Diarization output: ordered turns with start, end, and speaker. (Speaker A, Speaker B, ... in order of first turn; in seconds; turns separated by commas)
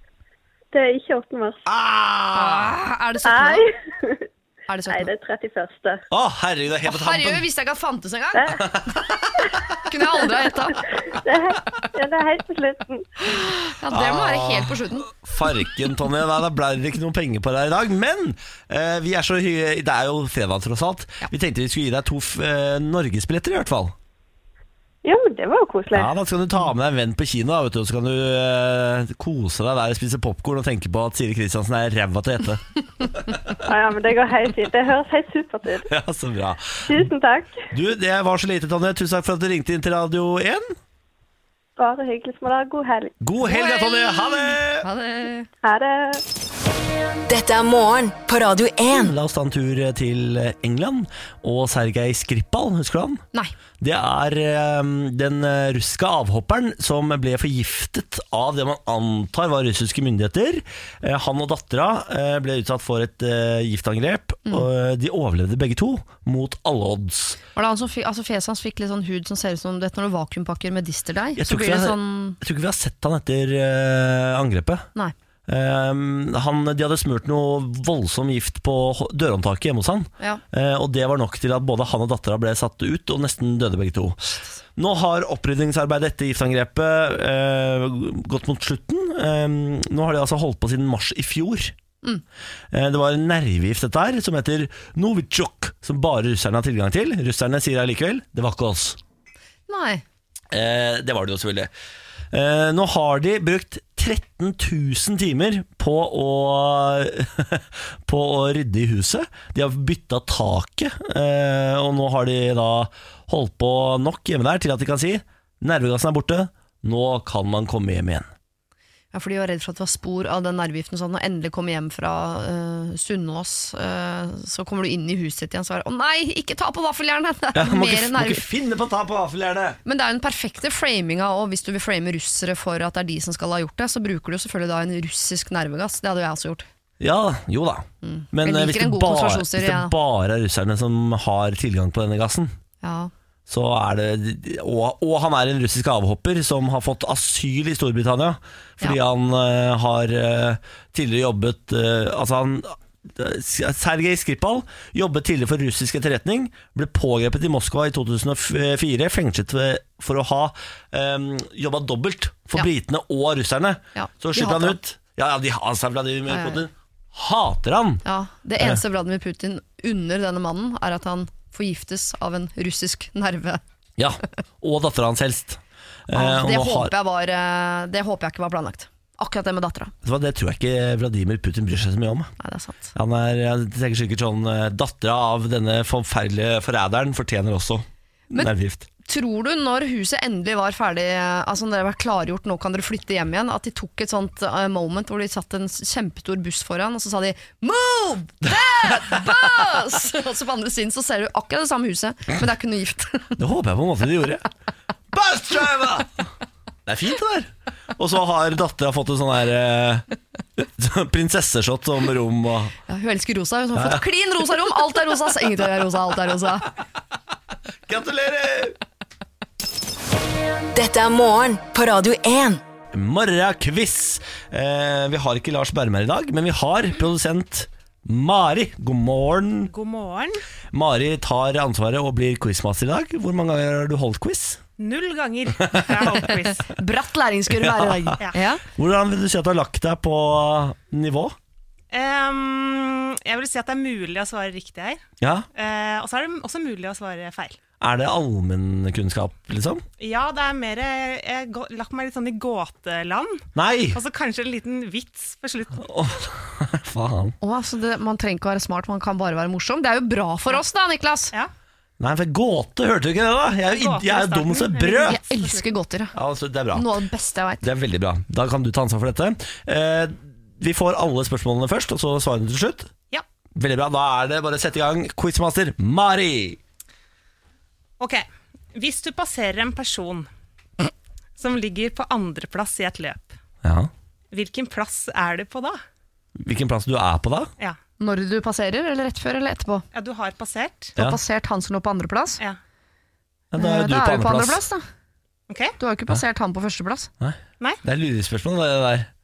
Speaker A: 0.7-1.6, Speaker B: 1.6-2.7, Speaker C: 2.3-3.7, Speaker A: 3.2-4.3, Speaker C: 4.7-5.1, Speaker A: 4.9-6.0, Speaker B: 6.1-7.4, Speaker C: 6.8-8.9, Speaker A: 8.3-8.6, Speaker B: 8.6-9.5, Speaker C: 9.8-10.8, Speaker A: 11.1-13.3, Speaker C: 13.2-15.1, Speaker B: 13.9-23.9, Speaker A: 25.0-26.1, Speaker B: 25.9-33.4, Speaker A: 33.6-35.9, Speaker B: 35.9-37.0, Speaker A: 36.9-37.6, Speaker B: 37.7-40.7, Speaker A: 41.8-43.1, Speaker B: 43.2-44.9, Speaker C: 43.4-45.5, Speaker A: 45.6-46.2, Speaker D: 47.3-49.1, Speaker B: 48.9-53.2, Speaker B: 53.8-67.4, Speaker C: 67.5-72.4, Speaker B: 71.4-74.8, Speaker B: 75.5-91.7, Speaker B: 92.7-99.0, Speaker C: 99.7-100.0, Speaker B: 100.5-101.7, Speaker B: 102.3-118.3, Speaker C: 119.1-128.5, Speaker B: 127.5-129.8, Speaker C: 129.8-136.7, Speaker B: 137.0-142.5, Speaker C: 138.0-139.9, Speaker C: 142.8-143.1, Speaker B: 143.5-168.0, Speaker C: 163.9-164.8, Speaker C: 166.3-166.6, Speaker C: 168.0-173.6, Speaker B: 174.0-176.9, Speaker C: 176.1-179.9, Speaker B: 180.0-182.3, Speaker C: 182.4-182.9, Speaker B: 182.9-188.9, Speaker C: 189.0-203.4, Speaker B: 203.4-204.5, Speaker B: 205.1-206.1, Speaker B: 206.8-210.1, Speaker B: 210.6-212.7, Speaker C: 212.9-216.7, Speaker B: 213.7-214.0, Speaker B: 217.9-218.8, Speaker D: 220.7-222.6, Speaker B: 222.9-229.7, Speaker E: 229.7-230.4, Speaker B: 230.7-234.6, Speaker E: 234.8-236.7, Speaker B: 235.7-236.3, Speaker C: 236.7-238.6, Speaker B: 237.6-238.2, Speaker B: 238.7-241.3, Speaker E: 241.9-245.0, Speaker B: 245.2-245.5, Speaker E: 245.5-247.6, Speaker B: 247.8-249.8, Speaker E: 250.0-255.8, Speaker B: 253.5-254.0, Speaker B: 255.8-257.4, Speaker C: 257.4-261.3, Speaker B: 262.0-265.2, Speaker E: 263.7-265.7, Speaker C: 265.0-266.1, Speaker B: 266.1-266.9, Speaker C: 266.7-267.7, Speaker B: 267.6-272.9, Speaker B: 273.6-276.6, Speaker E: 278.0-280.3, Speaker E: 281.4-283.4, Speaker B: 283.6-283.9, Speaker E: 284.3-285.8, Speaker B: 286.4-287.5, Speaker C: 288.0-289.8, Speaker E: 289.9-290.9, Speaker C: 291.0-292.4, Speaker B: 293.5-294.6, Speaker C: 293.6-294.9, Speaker E: 295.5-295.7, Speaker C: 295.8-297.1, Speaker B: 297.2-299.1